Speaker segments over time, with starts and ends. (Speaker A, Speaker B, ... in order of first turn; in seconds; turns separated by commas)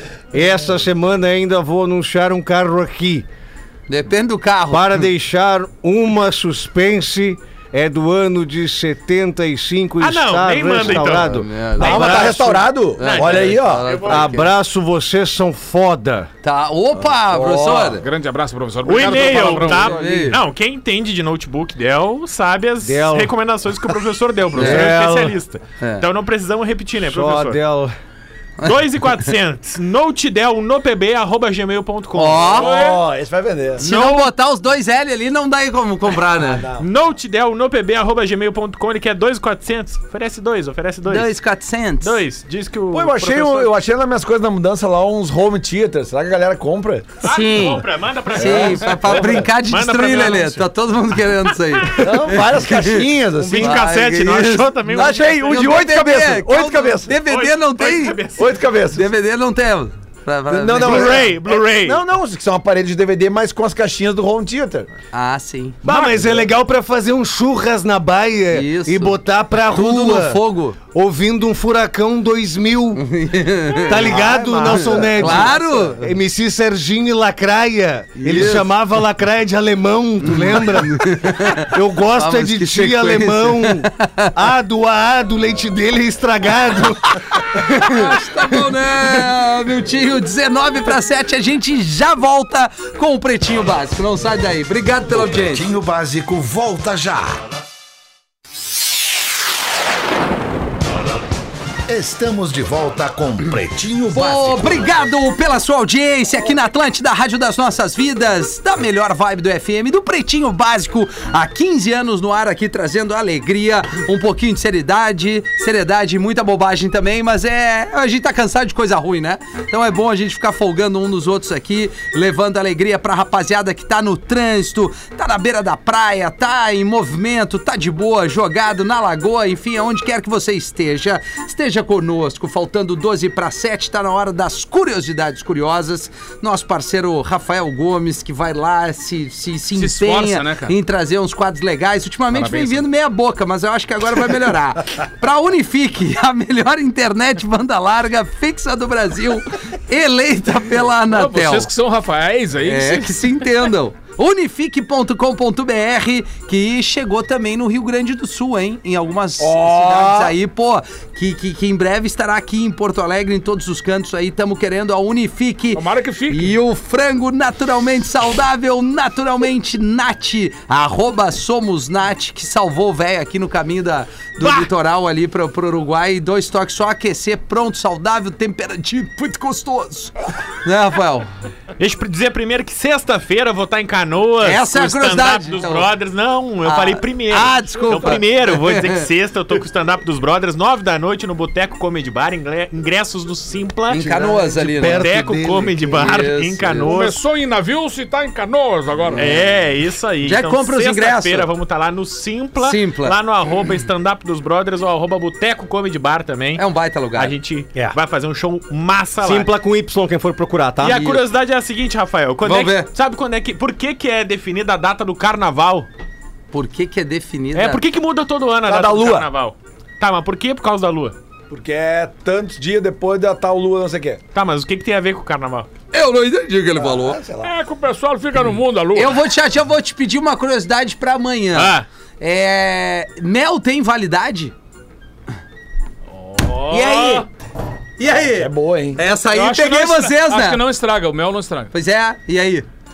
Speaker A: 0.3-3.3, Speaker B: 3.9-5.1, Speaker A: 4.7-12.6, Speaker C: 10.0-14.4, Speaker B: 10.8-12.2, Speaker D: 11.8-13.9, Speaker B: 13.0-14.5, Speaker A: 14.0-16.3, Speaker B: 16.4-18.1, Speaker D: 17.3-17.9, Speaker E: 18.0-20.0, Speaker C: 18.9-27.6, Speaker B: 19.6-20.4, Speaker A: 22.8-23.3, Speaker A: 24.5-25.4, Speaker B: 24.6-24.9, Speaker B: 25.8-26.1, Speaker A: 27.0-27.9, Speaker C: 28.6-32.8, Speaker B: 32.1-32.8, Speaker D: 32.5-33.8, Speaker E: 32.6-33.0, Speaker C: 33.8-34.3, Speaker B: 33.8-36.7, Speaker D: 36.4-36.9, Speaker C: 36.8-41.3, Speaker B: 41.1-42.2, Speaker C: 42.0-43.7, Speaker D: 42.9-47.2, Speaker C: 47.2-50.7, Speaker B: 47.2-58.2, Speaker D: 48.4-49.4, Speaker C: 51.8-52.1, Speaker D: 52.0-53.9, Speaker C: 53.4-55.8, Speaker D: 54.9-57.2, Speaker C: 57.2-58.5, Speaker D: 58.4-59.0, Speaker B: 58.9-61.2, Speaker D: 60.5-64.9, Speaker C: 60.8-62.0, Speaker B: 65.1-65.8, Speaker A: 65.8-73.0, Speaker B: 68.5-70.8, Speaker B: 73.0-76.1, Speaker A: 73.8-88.2, Speaker D: 74.1-75.5, Speaker B: 78.2-78.7, Speaker B: 80.2-84.3, Speaker B: 87.3-95.7, Speaker F: 95.2-97.4, Speaker F: 101.9-104.9, Speaker B: 104.1-151.7, Speaker E: 139.8-140.7, Speaker E: 142.3-142.9, Speaker E: 151.1-153.2, Speaker B: 152.6-181.3, Speaker D: 159.4-160.4, Speaker E: 165.7-166.6, Speaker C: 174.4-174.7, Speaker C: 181.8-194.1, Speaker B: 184.4-185.9, Speaker B: 186.6-189.1, Speaker B: 193.9-195.1, Speaker A: 193.9-195.9, Speaker C: 194.9-197.2, Speaker B: 195.8-196.9, Speaker E: 196.9-199.4, Speaker C: 199.2-206.6, Speaker B: 200.2-201.5, Speaker B: 202.6-203.2, Speaker B: 206.6-207.4, Speaker C: 207.2-209.6, Speaker A: 209.2-211.2, Speaker C: 210.8-215.9, Speaker B: 210.9-211.2, Speaker B: 212.4-212.9, Speaker B: 216.5-217.8, Speaker C: 217.5-221.2, Speaker D: 218.7-219.3, Speaker D: 221.5-224.2, Speaker C: 224.3-225.7, Speaker B: 225.9-227.2, Speaker D: 226.8-227.5, Speaker E: 227.4-229.2, Speaker B: 228.9-234.5, Speaker C: 231.5-231.8, Speaker E: 236.1-237.3, Speaker B: 236.7-237.2, Speaker B: 238.0-240.6, Speaker D: 238.3-239.0, Speaker E: 239.3-241.7, Speaker B: 241.7-242.7